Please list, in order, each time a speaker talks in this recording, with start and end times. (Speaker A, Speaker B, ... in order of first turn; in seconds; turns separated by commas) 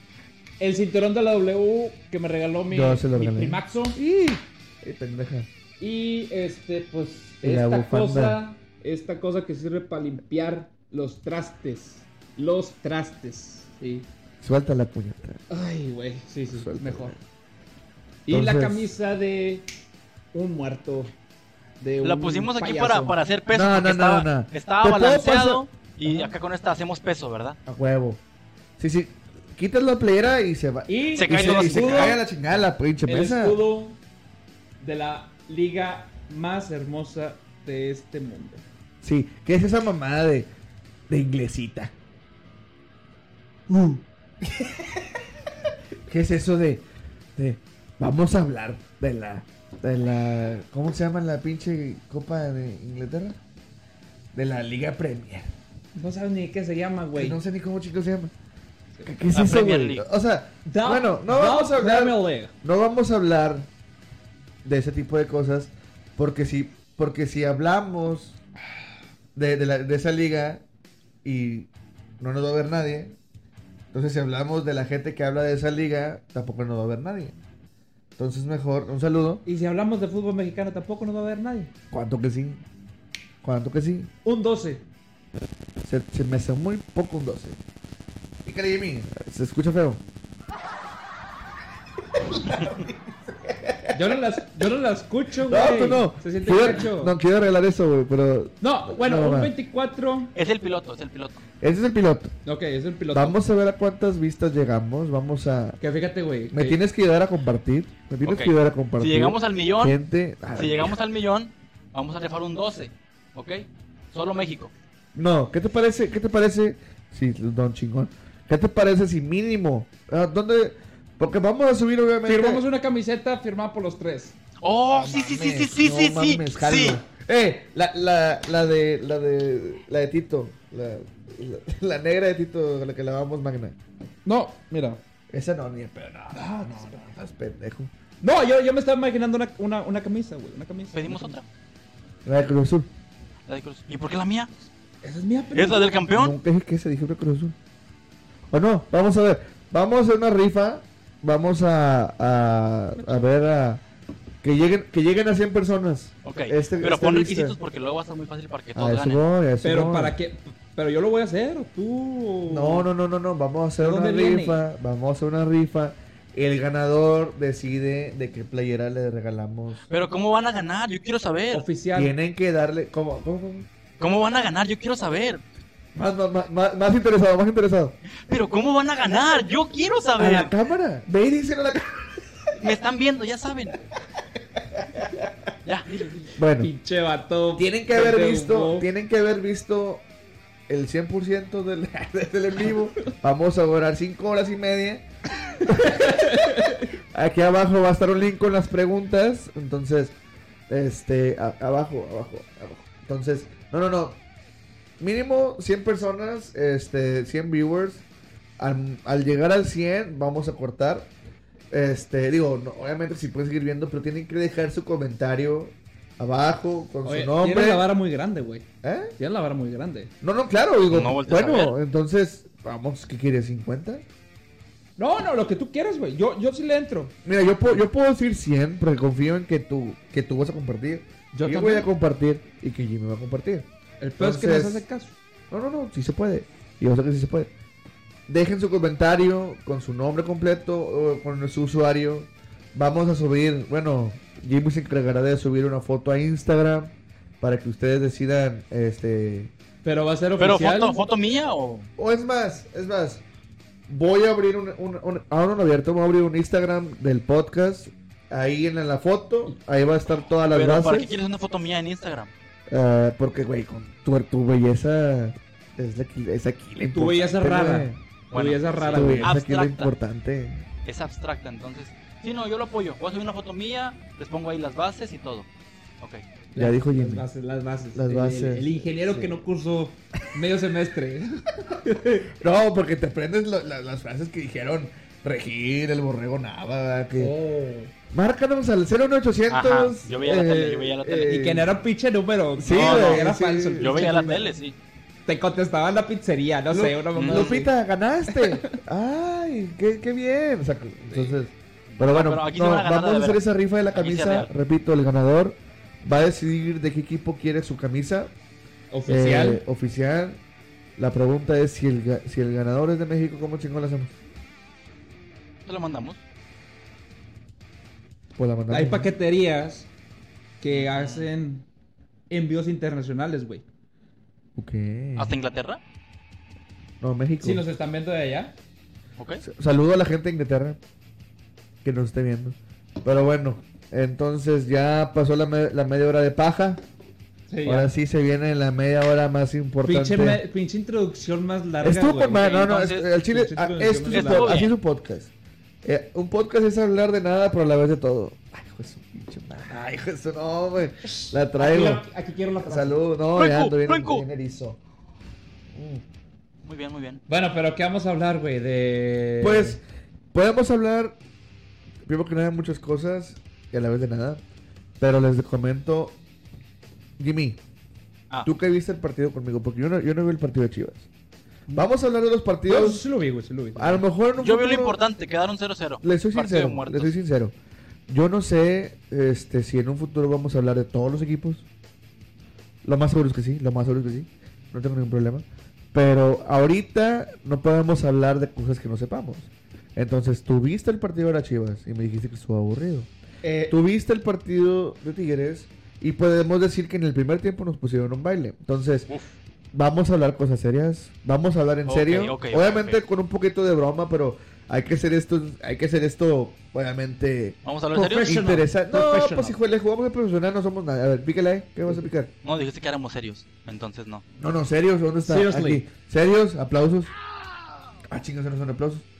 Speaker A: 0.6-4.0, Speaker B: 2.7-5.5, Speaker A: 5.8-14.1, Speaker B: 7.4-8.4, Speaker B: 14.4-15.4, Speaker A: 15.5-17.1, Speaker B: 16.5-17.2, Speaker A: 18.2-19.7, Speaker B: 18.3-18.9, Speaker A: 20.3-21.1, Speaker A: 21.8-23.2, Speaker C: 22.0-27.6, Speaker B: 23.5-25.6, Speaker B: 27.7-28.2, Speaker B: 28.8-33.6, Speaker A: 30.9-32.2, Speaker C: 31.1-32.2, Speaker A: 33.0-34.0, Speaker A: 34.8-38.6, Speaker B: 39.0-40.5, Speaker B: 41.1-41.9, Speaker B: 43.7-44.9, Speaker B: 46.1-46.8, Speaker B: 47.4-53.4, Speaker B: 54.3-55.5, Speaker A: 56.0-57.4, Speaker B: 57.1-58.3, Speaker B: 59.0-63.7, Speaker C: 59.3-60.0, Speaker A: 60.6-62.5, Speaker B: 64.6-68.4, Speaker B: 69.3-70.6, Speaker B: 71.2-73.2, Speaker B: 73.9-77.3, Speaker B: 78.2-79.4, Speaker A: 79.4-81.7, Speaker B: 81.9-82.6, Speaker B: 83.4-84.1, Speaker A: 84.2-84.8, Speaker B: 85.8-87.6, Speaker B: 88.4-90.0, Speaker B: 92.3-92.7, Speaker B: 93.5-93.9, Speaker A: 93.9-97.1, Speaker B: 95.4-99.5, Speaker A: 98.6-100.3, Speaker C: 100.3-101.4, Speaker B: 101.6-102.3, Speaker A: 102.4-103.4, Speaker B: 103.1-105.8, Speaker A: 105.8-106.8, Speaker B: 106.5-111.0, Speaker C: 108.2-110.0, Speaker C: 110.5-114.7, Speaker B: 115.1-122.6, Speaker A: 122.2-124.4, Speaker C: 124.6-127.0, Speaker B: 124.9-133.8, Speaker A: 134.2-135.0, Speaker B: 135.3-137.9, Speaker A: 136.3-137.1, Speaker A: 138.2-141.3, Speaker C: 140.9-141.4, Speaker B: 142.2-142.9, Speaker C: 143.5-144.5, Speaker A: 145.0-146.0, Speaker C: 145.5-146.3, Speaker B: 146.1-147.5, Speaker B: 148.5-153.8, Speaker B: 154.4-157.6, Speaker C: 156.2-159.2, Speaker B: 158.7-160.1, Speaker A: 159.6-162.9, Speaker B: 162.4-169.8, Speaker A: 163.8-164.6, Speaker C: 169.9-171.7, Speaker A: 171.5-172.1, Speaker B: 171.9-173.7, Speaker C: 174.0-175.4, Speaker B: 175.9-178.0, Speaker C: 178.3-180.5, Speaker B: 180.2-182.2, Speaker C: 182.6-183.8, Speaker B: 185.0-185.2, Speaker C: 185.6-186.3, Speaker B: 186.3-186.7, Speaker A: 186.6-188.9, Speaker B: 187.6-190.1, Speaker B: 190.7-195.1, Speaker B: 195.6-200.1, Speaker A: 195.7-196.9, Speaker B: 200.7-204.2, Speaker B: 205.0-208.0, Speaker B: 208.6-211.1, Speaker B: 211.7-217.9, Speaker A: 217.0-218.7, Speaker B: 218.8-219.1, Speaker A: 219.2-220.1, Speaker B: 220.2-224.0, Speaker C: 220.9-221.8, Speaker A: 225.0-227.1, Speaker B: 227.2-234.8, Speaker A: 231.3-231.9, Speaker A: 234.0-235.2, Speaker B: 235.5-237.5, Speaker B: 238.3-249.5, Speaker A: 249.8-251.0, Speaker C: 250.4-251.9, Speaker B: 252.0-253.2, Speaker B: 253.9-261.1, Speaker C: 260.4-262.3, Speaker B: 262.7-268.0, Speaker A: 266.9-269.3, Speaker C: 268.3-269.9, Speaker B: 268.9-270.6, Speaker C: 270.8-275.5, Speaker A: 276.5-282.3, Speaker B: 276.5-277.2, Speaker B: 277.9-279.4, Speaker B: 282.4-287.3, Speaker A: 287.2-287.9, Speaker B: 288.1-291.8, Speaker C: 289.5-291.4, Speaker A: 291.2-294.4, Speaker B: 292.6-294.5, Speaker C: 292.7-294.7, Speaker A: 295.3-297.7, Speaker B: 296.7-308.3, Speaker C: 297.1-297.6, Speaker A: 298.3-298.8, Speaker C: 301.9-303.4, Speaker C: 303.9-304.5, Speaker A: 308.9-309.6, Speaker B: 309.1-310.4, Speaker B: 311.0-314.1, Speaker C: 315.6-316.2, Speaker B: 318.4-319.1, Speaker A: 318.7-319.9, Speaker A: 320.6-321.6, Speaker C: 320.7-321.3, Speaker A: 322.3-323.6, Speaker B: 324.6-325.4, Speaker C: 325.2-325.8, Speaker B: 327.0-327.6, Speaker A: 327.4-328.6, Speaker C: 329.2-329.4, Speaker B: 329.4-330.8, Speaker B: 331.8-336.8, Speaker A: 337.5-337.9, Speaker B: 337.6-340.4, Speaker A: 339.8-344.6, Speaker B: 341.8-345.3, Speaker C: 342.5-343.0, Speaker C: 344.1-344.7, Speaker B: 345.8-352.0, Speaker A: 351.0-353.0, Speaker B: 352.6-354.8, Speaker C: 353.3-354.2, Speaker B: 355.7-356.0, Speaker C: 356.6-357.2, Speaker A: 357.3-359.8, Speaker B: 359.4-359.8, Speaker B: 360.3-361.2, Speaker B: 362.1-364.4, Speaker B: 365.0-366.2, Speaker B: 367.2-367.6, Speaker B: 368.4-371.1, Speaker B: 371.7-373.0, Speaker A: 372.6-374.0, Speaker B: 373.8-375.0, Speaker C: 374.4-377.1, Speaker B: 376.0-377.5, Speaker B: 378.1-381.7, Speaker B: 382.8-393.1, Speaker A: 393.4-393.7, Speaker B: 393.7-399.1, Speaker B: 399.7-412.3, Speaker C: 401.9-403.0, Speaker C: 407.6-408.4, Speaker A: 407.9-409.6, Speaker C: 412.4-414.2, Speaker B: 414.4-417.1, Speaker A: 415.2-415.8, Speaker B: 418.1-419.1